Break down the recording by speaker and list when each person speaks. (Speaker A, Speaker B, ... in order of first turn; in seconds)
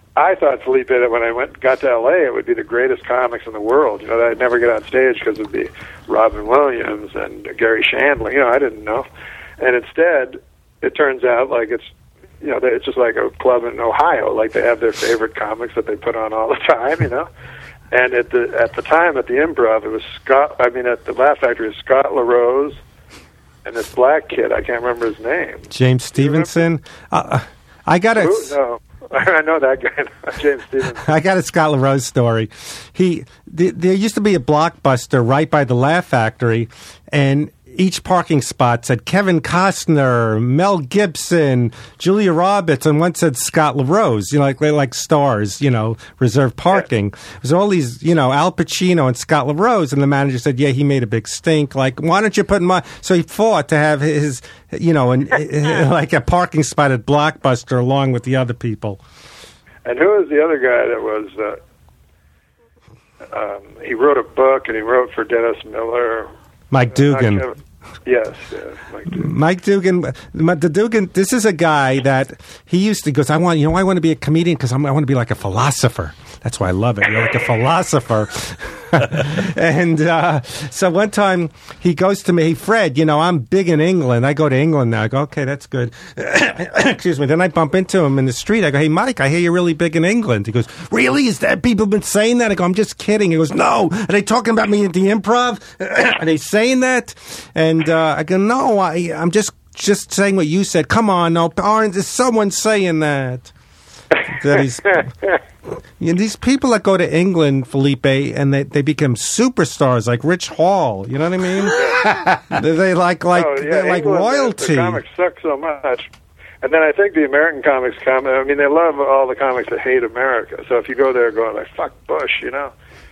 Speaker A: 0.2-9.1, 9.6-11.9, 12.4-17.3, 17.9-22.8, 23.6-26.6, 28.1-31.1, 59.9-61.6, 63.3-66.3, 66.9-69.3, 111.8-112.0, 113.3-116.1, 116.6-122.7
Speaker B: 25.7-28.6, 31.0-59.0, 66.7-67.5, 69.1-103.5, 104.3-105.1, 106.0-111.9, 112.5-115.0